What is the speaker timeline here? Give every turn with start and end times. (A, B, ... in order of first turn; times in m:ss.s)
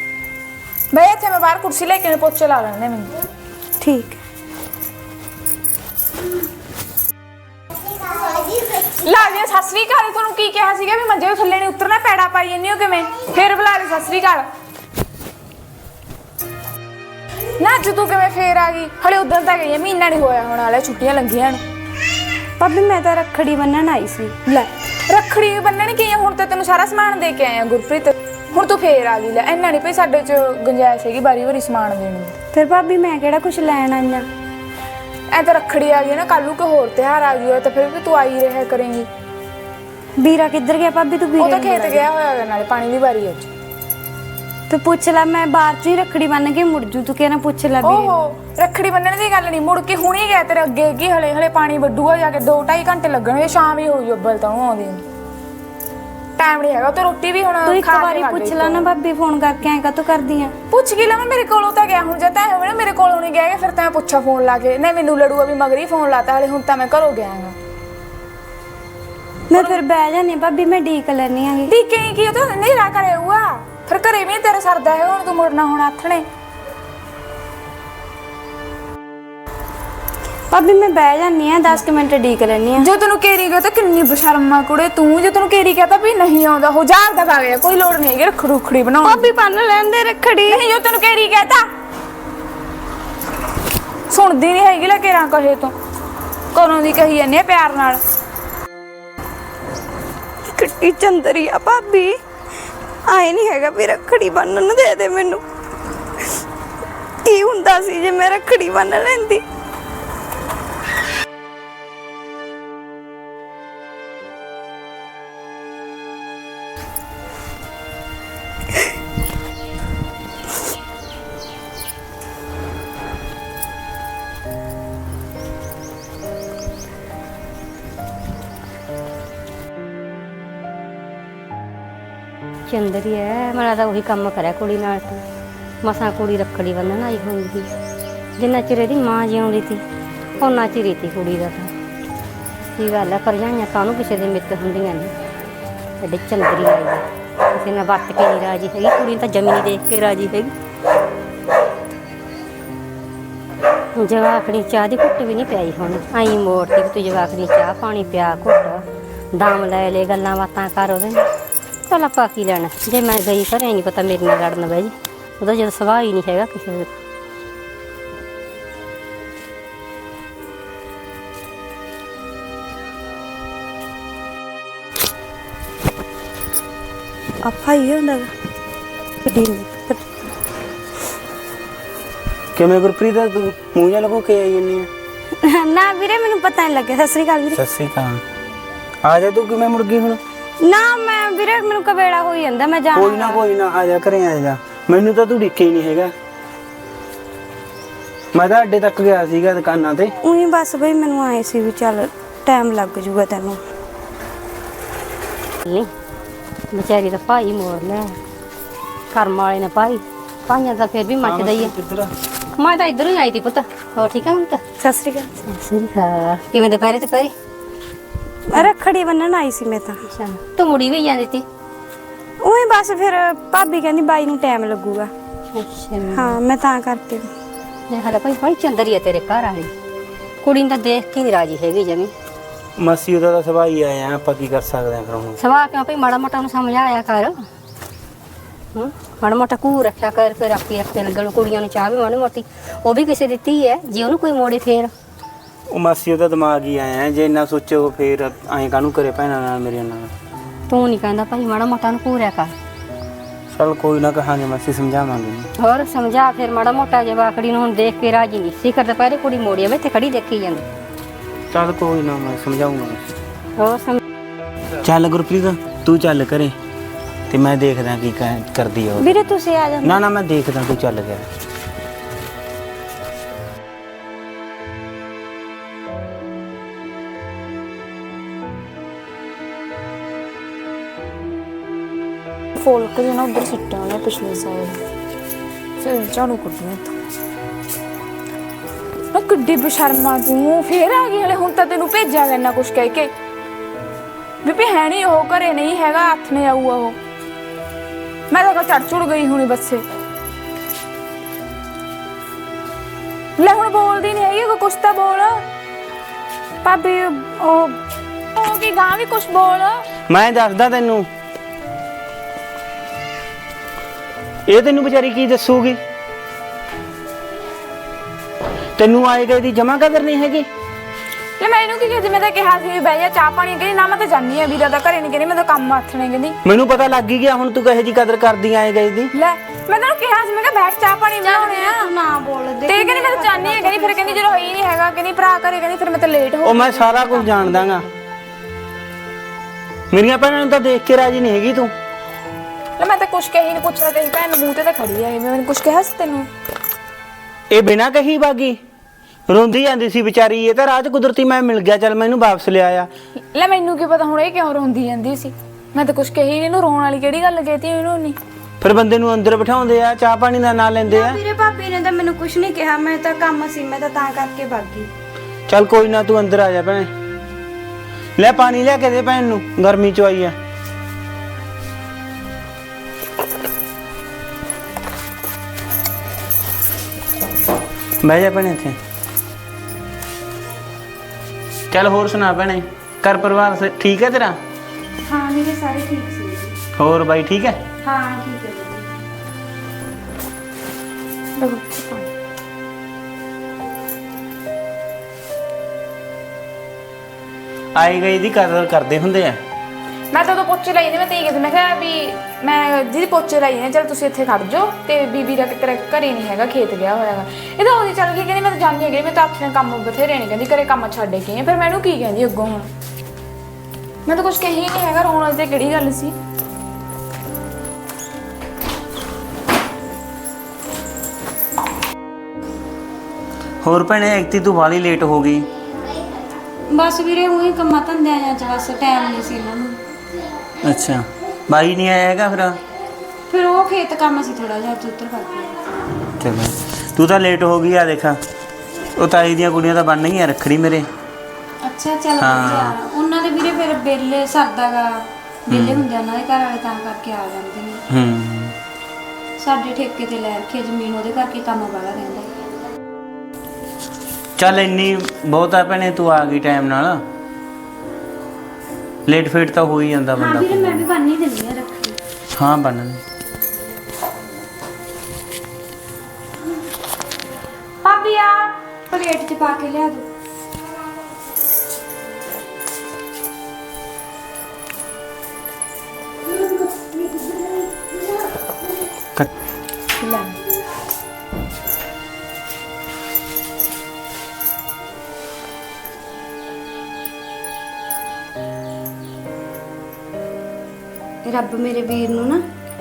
0:00.9-0:03.2 A
0:03.8-0:04.2 B
0:08.8-0:14.5 A
0:17.6-0:21.6 A
0:22.6-0:24.4 B
0:24.5-0:32.4 A
0:32.5-0:34.3 B
0:35.3-0:39.1 A
0:40.2-0:42.1 B
0:41.4-0:43.5 A
0:44.7-0:48.2 B
0:47.8-0:55.0 A
0:56.4-0:58.9 A
0:57.6-1:00.6 B
1:00.7-1:07.6 A
1:09.5-1:11.7 B
1:09.5-1:09.8 A
1:11.7-1:16.3 A
1:20.5-1:22.9 B
1:22.8-1:29.3 A
1:29.0-1:30.7 B
1:30.5-1:31.7 A
1:34.1-1:35.7 A
1:36.5-1:38.0 A
1:40.5-1:42.2 B
1:43.1-1:45.4 B
1:47.2-1:49.4 B
2:12.7-2:15.2 C
2:15.8-2:17.7 C
2:18.4-2:19.8 C
2:20.4-2:21.7 C
2:22.8-2:25.1 C
2:26.0-2:30.5 C
2:34.0-2:41.3 C
2:41.9-2:46.9 C
2:57.4-2:58.3 B
2:59.2-3:00.1 B
3:02.6-3:04.9 D
3:05.4-3:07.6 B
3:07.6-3:08.2 D
3:09.0-3:10.2 D
3:10.6-3:13.4 B
3:13.0-3:16.1 D
3:18.3-3:20.1 D
3:20.2-3:23.6 B
3:26.7-3:28.2 C
3:29.1-3:31.7 C
3:31.2-3:32.1 D
3:32.6-3:34.6 C
3:34.8-3:35.4 B
3:35.5-3:37.3 C
3:38.5-3:40.0 B
3:40.1-3:41.4 C
3:42.4-3:45.1 B
3:45.6-3:46.4 C
3:46.1-3:47.3 B
3:47.9-3:49.7 C
3:50.4-3:52.1 C
3:52.8-3:55.4 D
3:55.4-3:57.4 C
3:58.7-4:04.9 C
4:05.7-4:10.1 D
4:10.7-4:12.5 C
4:13.5-4:15.5 D
4:15.6-4:20.6 C
4:21.5-4:23.0 D
4:23.6-4:24.0 C
4:24.8-4:26.6 D
4:27.3-4:29.1 D
4:29.0-4:30.0 B
4:29.8-4:31.3 D
4:42.6-4:44.8 A
4:45.8-4:47.0 A
4:49.1-4:53.1 A
4:54.4-4:57.0 A
4:58.3-4:59.8 A
5:03.4-5:05.4 A
5:06.6-5:07.8 B
5:08.4-5:09.9 A
5:10.1-5:11.1 D
5:14.5-5:15.8 D
5:18.8-5:20.5 D
5:21.4-5:26.4 A
5:26.4-5:29.1 D
5:29.1-5:31.9 A
5:31.2-5:34.3 B
5:32.7-5:37.9 A
5:36.4-5:37.9 D
5:39.9-5:41.7 D
5:42.8-5:46.3 A
5:47.5-5:48.6 D
5:49.3-5:52.9 D
5:53.3-5:58.2 A
5:58.6-6:01.2 D
6:00.9-6:04.9 B
6:05.5-6:06.9 D
6:08.2-6:10.4 D
6:18.0-6:18.8 D
6:21.7-6:24.4 D
6:25.0-6:26.5 B
6:26.8-6:27.6 D
6:27.8-6:28.9 B
6:31.4-6:32.1 A
6:37.8-6:39.4 D
6:40.1-6:52.7 A
6:54.1-6:56.2 A
7:03.6-7:05.5 D
7:06.7-7:09.8 B
7:10.6-7:12.6 D
7:13.3-7:15.6 B
7:16.2-7:18.2 D
7:19.0-7:20.9 D
7:21.6-7:27.8 B
7:22.2-7:22.7 D
7:25.5-7:25.8 D
7:27.9-7:28.6 D
7:29.4-7:32.3 B
7:34.4-7:37.0 D
7:39.1-7:40.8 D
7:40.2-7:42.0 B
7:42.4-7:43.0 D
7:47.8-7:50.1 B
7:56.6-7:57.6 B
8:00.0-8:00.4 A
8:11.2-8:12.4 B